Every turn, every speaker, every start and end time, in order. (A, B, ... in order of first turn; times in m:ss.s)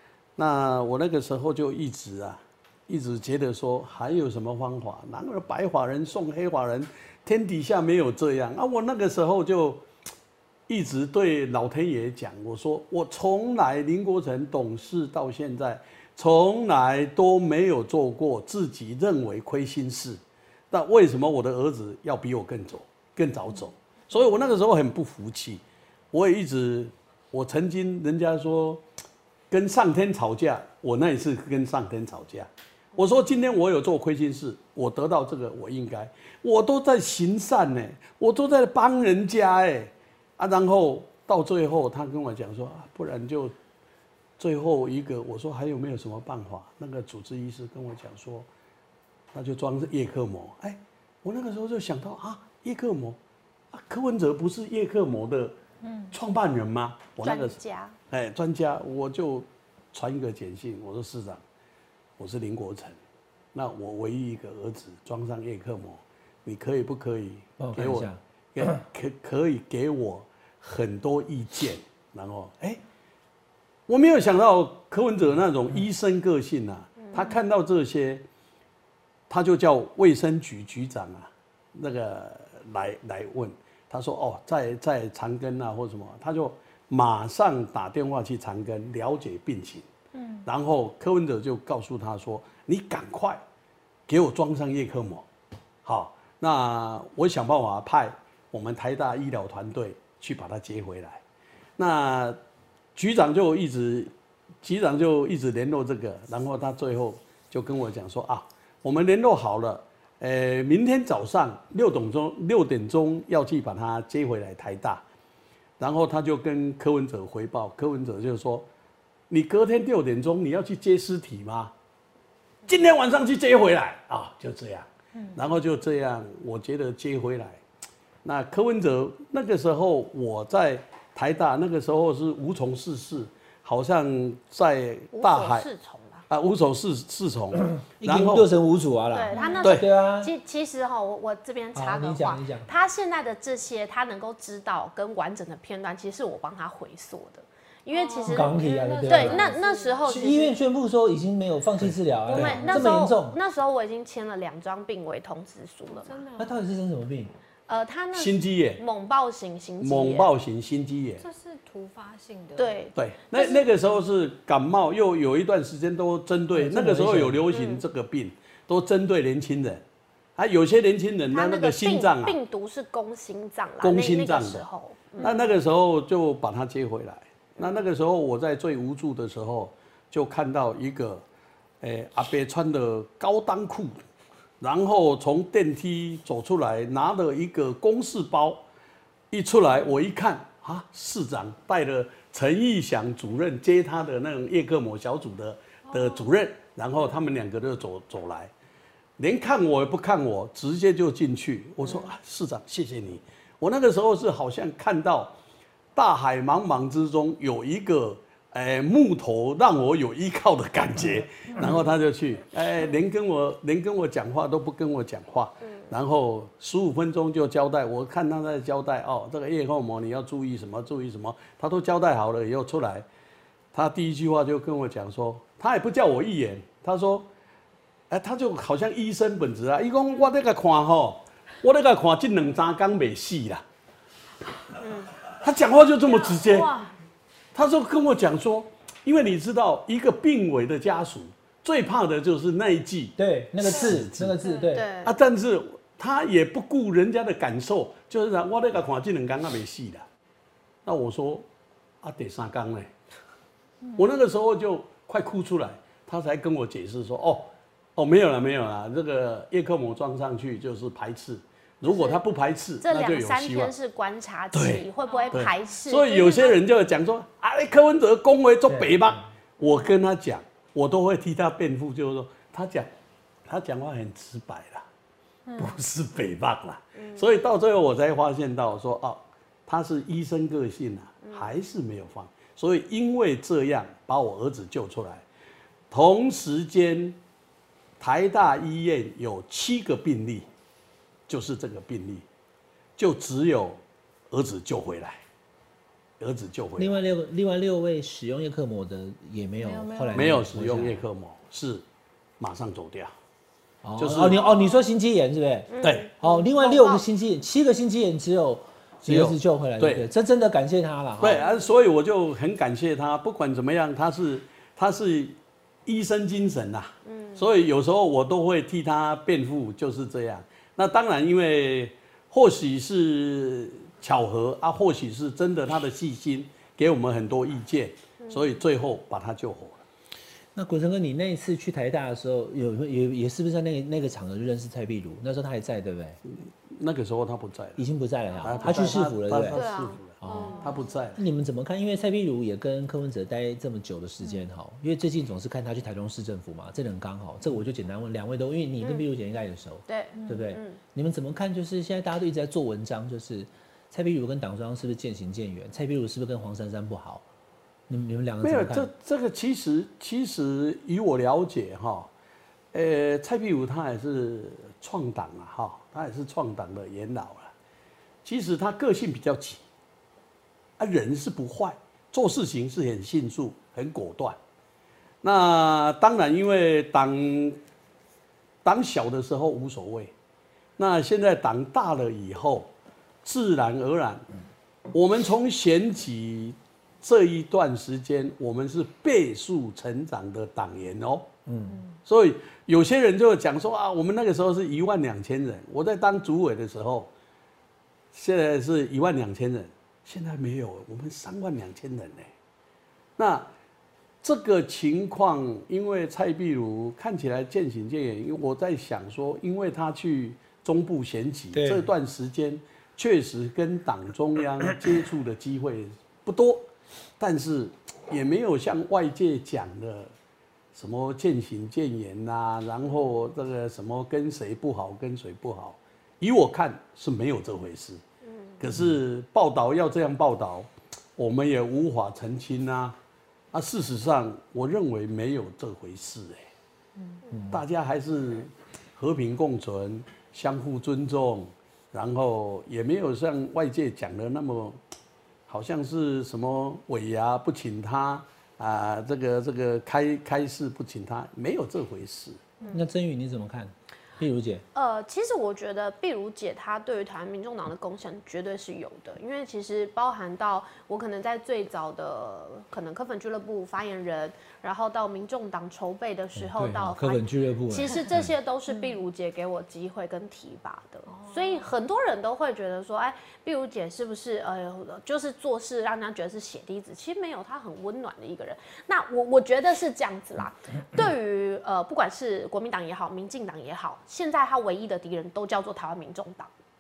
0:00.4-0:09.8 A
0:10.7-0:20.2 A
0:20.7-0:28.8 A
0:29.5-0:43.5 A
0:44.4-0:48.5 A
0:49.3-0:53.2 A
0:53.7-0:55.6 A
0:55.8-0:56.2 B
0:56.1-0:57.6 A
0:57.2-0:58.0 C
0:58.1-1:01.4 A
1:02.2-1:03.0 A
1:03.5-1:12.8 A
1:07.6-1:08.8 D
1:13.9-1:18.2 A
1:19.3-1:29.9 A
1:30.1-1:30.5 B
1:30.4-1:33.4 A
1:34.1-1:35.3 A
1:35.8-1:41.2 A
1:41.8-1:42.4 A
1:43.0-1:44.1 A
1:44.6-1:55.0 A
1:55.8-1:58.7 A
1:59.3-2:01.7 A
2:02.7-2:07.6 A
2:05.2-2:05.4 B
2:08.2-2:15.7 A
2:15.1-2:16.2 C
2:16.3-2:18.5 A
2:17.6-2:20.3 D
2:19.1-2:30.5 C
2:19.3-2:19.8 B
2:19.6-2:19.9 A
2:21.8-2:22.7 D
2:27.9-2:30.0 B
2:28.3-2:29.5 D
2:30.1-2:33.4 D
2:31.8-2:32.6 A
2:32.3-2:36.2 C
2:32.4-2:32.9 B
2:36.1-2:36.6 B
2:36.4-2:37.3 D
2:37.7-2:40.3 C
2:38.1-2:38.8 A
2:39.8-2:41.2 A
2:41.2-2:42.8 B
2:42.6-2:43.6 C
2:43.0-2:49.8 A
2:46.6-2:47.4 D
2:47.5-2:47.8 C
2:50.4-2:52.4 A
2:51.3-2:55.4 C
2:53.8-2:54.7 A
2:55.2-3:01.2 A
3:01.8-3:04.0 A
3:04.6-3:08.6 A
3:09.3-3:18.5 A
3:15.9-3:16.2 B
3:19.2-3:25.4 A
3:26.0-3:43.1 A
3:35.6-3:35.9 C
3:43.7-3:47.3 A
3:48.1-3:53.6 A
3:54.8-3:55.1 C
3:55.3-3:56.7 A
3:56.4-3:56.9 B
3:57.5-4:04.4 A
4:03.2-4:04.9 D
4:04.7-4:05.2 C
4:05.0-4:10.0 A
4:10.8-4:11.5 A
4:12.0-4:12.9 A
4:14.0-4:23.7 A
4:21.9-4:22.2 C
4:22.8-4:26.6 C
4:24.5-4:32.9 A
4:25.0-4:25.4 B
4:28.7-4:29.2 D
4:33.5-4:34.9 A
4:35.5-4:35.8 B
4:35.6-4:45.2 A
4:41.2-4:41.5 C
4:45.9-4:47.2 A
4:48.0-4:50.5 A
4:51.3-4:52.2 A
4:53.0-4:55.2 A
4:56.2-4:57.0 A
4:56.8-5:01.0 D
4:59.6-5:00.4 B
5:00.1-5:01.8 A
5:02.4-5:03.1 A
5:03.8-5:11.4 D
5:04.0-5:04.5 A
5:05.7-5:07.0 C
5:05.8-5:06.1 A
5:09.0-5:10.1 A
5:11.2-5:29.8 A
5:11.3-5:11.6 C
5:17.1-5:17.5 C
5:30.6-5:36.2 D
5:36.3-5:37.8 A
5:37.8-5:39.6 D
5:38.4-5:41.2 A
5:39.5-5:40.8 C
5:40.2-5:40.6 D
5:40.3-5:40.9 B
5:41.2-5:57.2 D
5:48.8-5:49.1 C
5:49.9-5:50.8 C
5:50.1-5:50.4 B
5:57.9-5:58.9 D
5:58.4-6:02.1 A
6:02.7-6:07.5 A
6:08.2-6:09.6 A
6:10.8-6:14.4 A
6:15.2-6:17.6 A
6:18.6-6:20.1 A
6:20.8-6:22.7 A
6:23.2-6:24.2 A
6:24.9-6:31.3 A
6:31.5-6:31.8 D
6:32.0-6:37.1 A
6:38.1-6:42.3 A
6:43.2-6:43.5 A
6:44.2-6:56.7 A
6:51.5-6:51.9 D
6:57.2-7:00.1 A
7:00.7-7:08.0 A
7:08.2-7:08.6 C
7:08.6-7:13.0 A
7:13.5-7:16.4 A
7:17.3-7:17.6 D
7:17.5-7:24.8 A
7:25.5-7:32.4 A
7:32.7-7:34.6 D
7:34.8-8:06.5 C
7:46.4-7:48.3 D
7:51.1-7:51.7 B